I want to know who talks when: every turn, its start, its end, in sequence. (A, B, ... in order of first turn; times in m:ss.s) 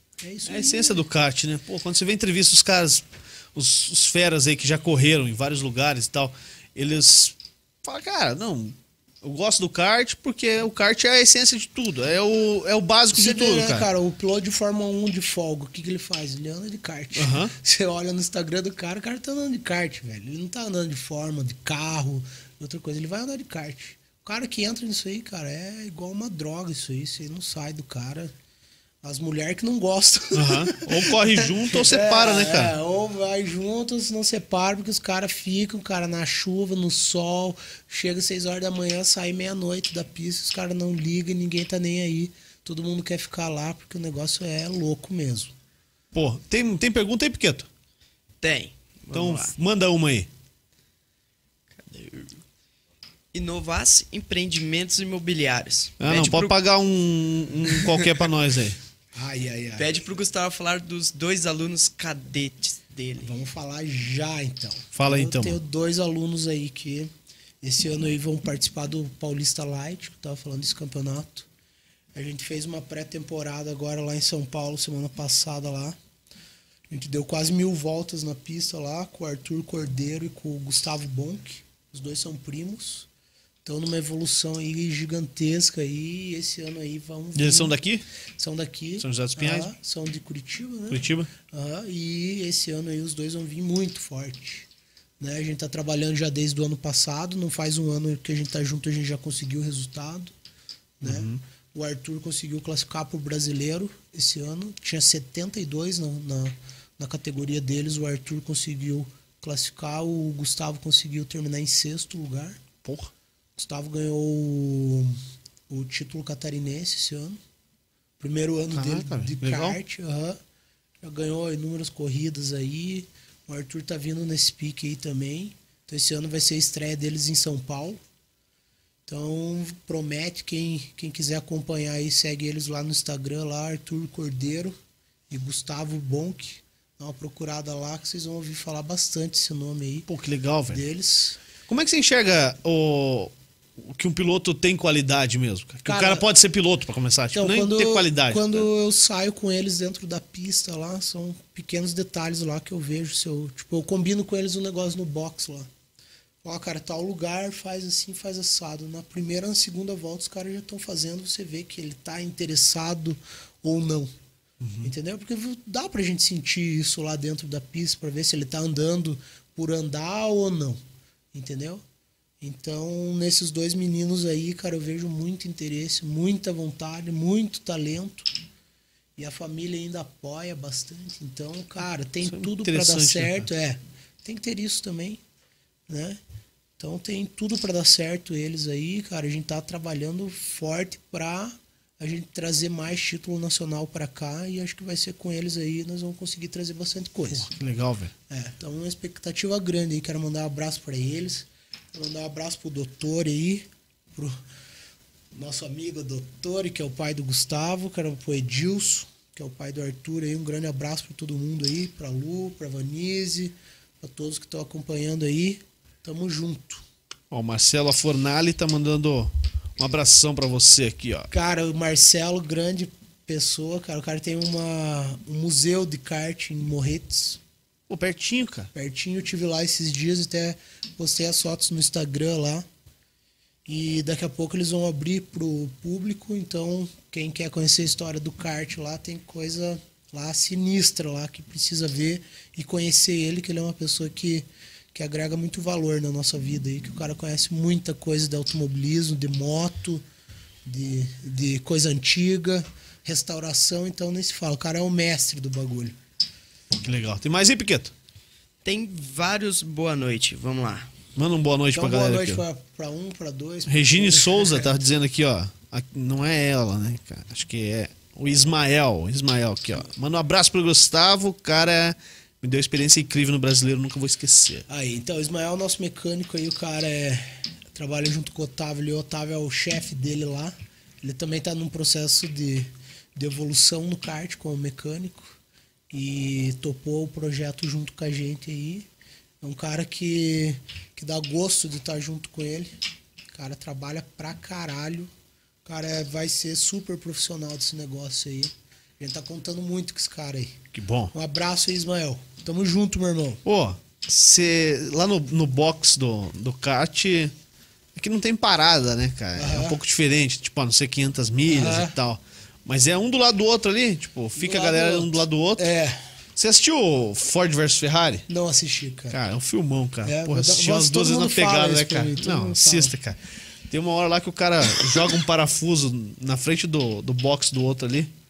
0:00.2-0:01.1 A
0:00.5-0:13.9 B
0:13.1-0:28.3 A
0:17.2-0:17.5 B
0:29.0-0:45.5 A
0:30.3-0:32.8 B
0:46.1-0:47.7 B
0:48.4-0:49.5 C
0:49.1-0:50.3 B
0:51.8-0:52.4 C
0:53.3-0:56.6 C
0:56.0-0:58.8 B
0:57.7-0:58.3 C
0:59.2-0:59.9 A
0:59.8-1:03.4 C
1:03.2-1:07.1 A
1:04.9-1:05.6 B
1:07.6-1:11.5 A
1:12.1-1:16.0 A
1:16.9-1:23.1 A
1:23.6-1:27.8 A
1:27.4-1:28.0 B
1:28.4-1:34.7 A
1:29.0-1:29.7 B
1:30.9-1:31.3 B
1:35.2-1:40.3 A
1:41.0-1:52.6 A
1:41.0-1:41.4 B
1:52.8-1:53.1 B
1:53.6-1:55.2 A
1:55.7-1:57.4 A
1:58.2-2:00.4 A
1:58.7-1:59.8 B
2:01.0-2:08.0 A
2:09.1-2:14.8 A
2:15.3-2:20.1 A
2:20.1-2:20.8 B
2:20.7-2:21.4 A
2:21.7-2:28.7 B
2:25.9-2:26.3 A
2:27.3-2:35.7 A
2:36.4-2:44.1 A
2:44.6-2:44.9 B
2:44.8-2:50.8 A
2:51.3-2:51.8 A
2:52.4-2:58.3 A
2:59.2-3:05.2 A
3:02.2-3:03.5 B
3:05.9-3:06.2 A
3:06.8-3:17.5 A
3:17.3-3:18.1 B
3:18.3-3:24.4 A
3:25.3-3:36.8 A
3:37.3-3:41.3 B
3:41.3-3:47.4 A
3:47.9-3:48.7 B
3:48.7-3:52.6 A
3:53.7-4:10.0 A
4:10.7-4:16.0 A
4:16.7-4:17.9 B
4:18.6-4:20.9 C
4:21.2-4:22.4 B
4:21.7-4:24.7 A
4:23.7-4:34.7 B
4:34.7-4:45.4 A
4:45.9-4:48.9 A
4:49.4-4:52.8 A
4:53.3-4:55.1 A
4:55.6-5:00.6 A
5:00.7-5:01.1 B
5:01.1-5:03.4 A
5:03.4-5:07.3 B
5:08.0-5:15.7 B
5:09.4-5:09.8 A
5:11.5-5:12.0 A
5:14.4-5:16.0 A
5:16.4-5:18.3 B
5:18.3-5:19.2 A
5:19.1-5:23.2 B
5:20.0-5:23.0 A
5:23.7-5:28.1 B